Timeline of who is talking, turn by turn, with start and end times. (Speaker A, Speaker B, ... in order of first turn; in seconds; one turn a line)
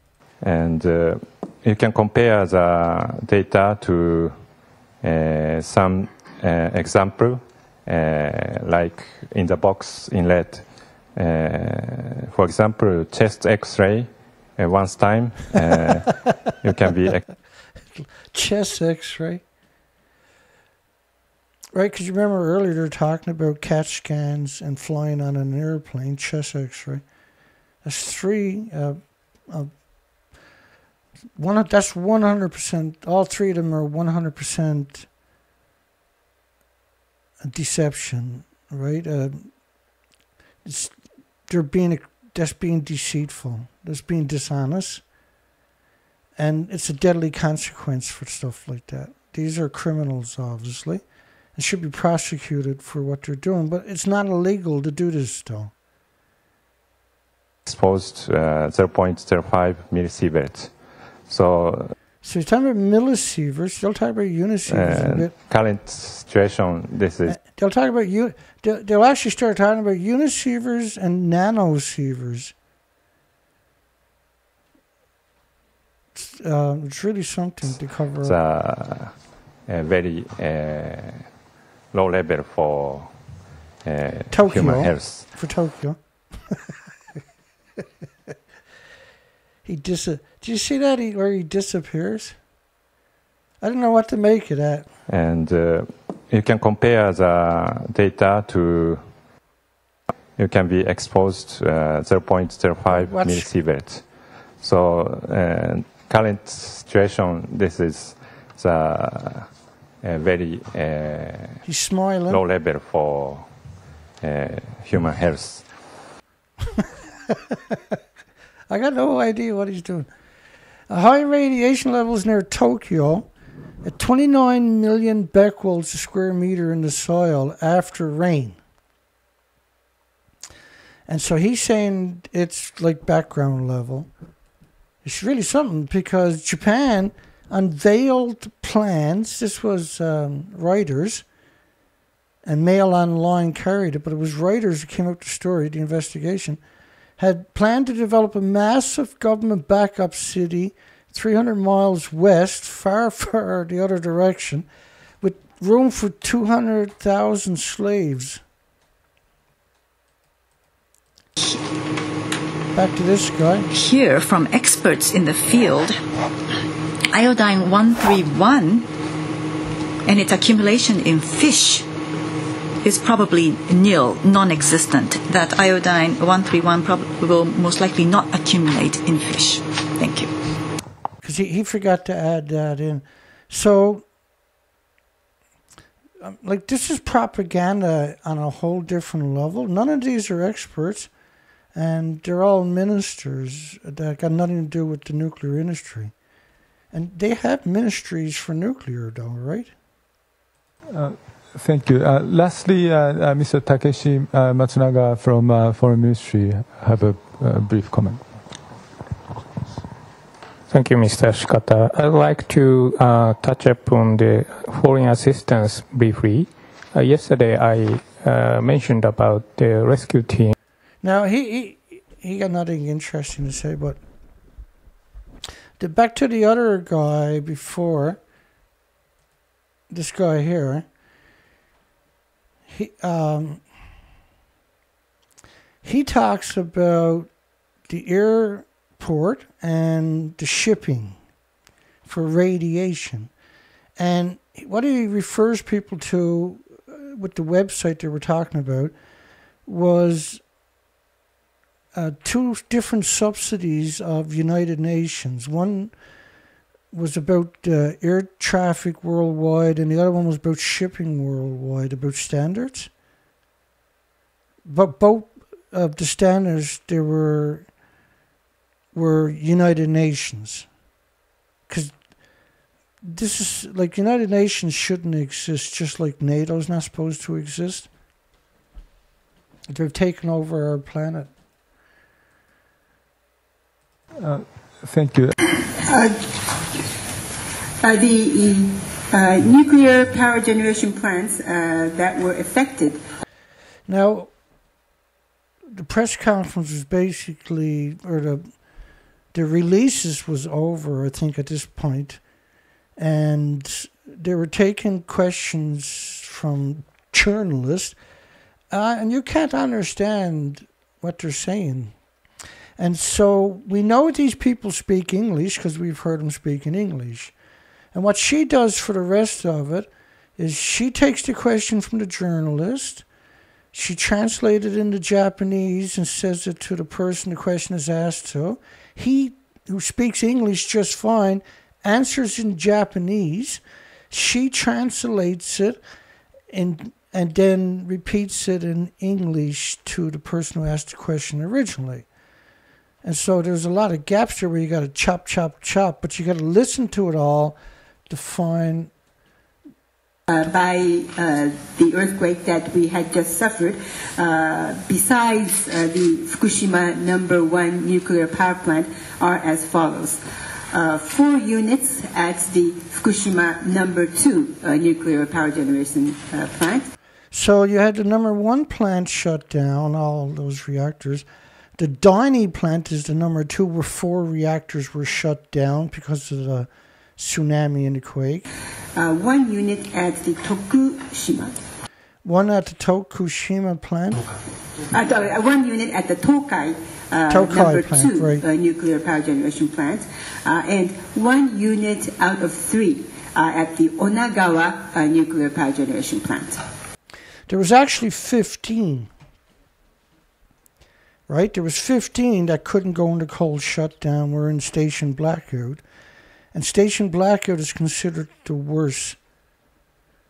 Speaker A: 0.4-4.4
Speaker A: 5.0-17.2
Speaker B: 18.0-19.4
Speaker B: 21.7-27.0
Speaker B: 27.8-29.7
Speaker B: 31.4-35.1
Speaker B: 37.4-39.5
Speaker B: 40.6-45.0
Speaker B: 46.4-51.0
Speaker B: 51.5-55.7
Speaker A: 57.6-61.9
Speaker B: 62.2-65.3
Speaker A: 64.7-67.4
Speaker B: 67.2-72.5
Speaker B: 76.1-78.3
Speaker A: 78.2-79.2
Speaker A: 79.7-81.3
Speaker A: 81.9-83.1
Speaker A: 83.8-85.3
Speaker B: 84.3-86.0
Speaker B: 89.6-92.4
Speaker B: 93.6-94.9
Speaker A: 95.1-99.0
Speaker A: 100.3-104.0
Speaker B: 102.9-103.5
Speaker A: 104.6-109.5
Speaker A: 110.0-111.6
Speaker B: 111.6-112.4
Speaker A: 112.3-113.5
Speaker A: 114.2-115.7
Speaker B: 118.7-120.1
Speaker B: 120.9-123.3
Speaker B: 123.8-128.6
Speaker B: 131.1-134.1
Speaker B: 135.0-141.2
Speaker B: 142.4-146.6
Speaker B: 147.2-154.7
Speaker B: 155.2-158.4
Speaker B: 162.7-163.7
Speaker C: 163.7-166.0
Speaker C: 167.1-168.8
Speaker C: 170.1-171.8
Speaker C: 172.8-180.3
Speaker B: 181.2-184.0
Speaker B: 186.2-191.1
Speaker B: 191.7-196.1
Speaker B: 196.9-199.7
Speaker D: 200.9-208.2
Speaker E: 210.7-220.5
Speaker B: 221.0-224.0
Speaker B: 225.8-228.2
Speaker B: 229.9-230.8
Speaker B: 232.7-233.6
Speaker B: 235.8-237.3
Speaker B: 237.9-241.2
Speaker B: 242.0-243.3
Speaker B: 244.0-248.9
Speaker B: 249.7-250.4
Speaker B: 251.9-255.9
Speaker B: 256.9-262.9
Speaker B: 264.6-267.7
Speaker B: 268.9-270.7
Speaker B: 271.7-271.9
Speaker B: 273.0-277.9
Speaker B: 279.7-281.3
Speaker D: 284.2-285.3
Speaker F: 285.8-286.2
Speaker F: 287.8-293.0
Speaker B: 293.9-294.3
Speaker B: 295.7-298.5
Speaker B: 299.3-302.2
Speaker B: 303.0-307.9
Speaker B: 308.7-311.9
Speaker B: 312.8-317.3
Speaker B: 317.9-323.1
Speaker B: 323.7-335.8
Speaker B: 336.5-342.1
Speaker B: 343.0-347.6
Speaker B: 348.1-348.9
Speaker F: 350.3-360.2
Speaker F: 360.7-366.9
Speaker B: 367.3-371.2
Speaker B: 371.8-378.5
Speaker F: 378.9-381.6
Speaker B: 382.2-384.2
Speaker F: 384.9-396.6
Speaker B: 387.3-388.4
Speaker B: 397.5-399.1
Speaker B: 401.3-405.8
Speaker B: 406.5-409.2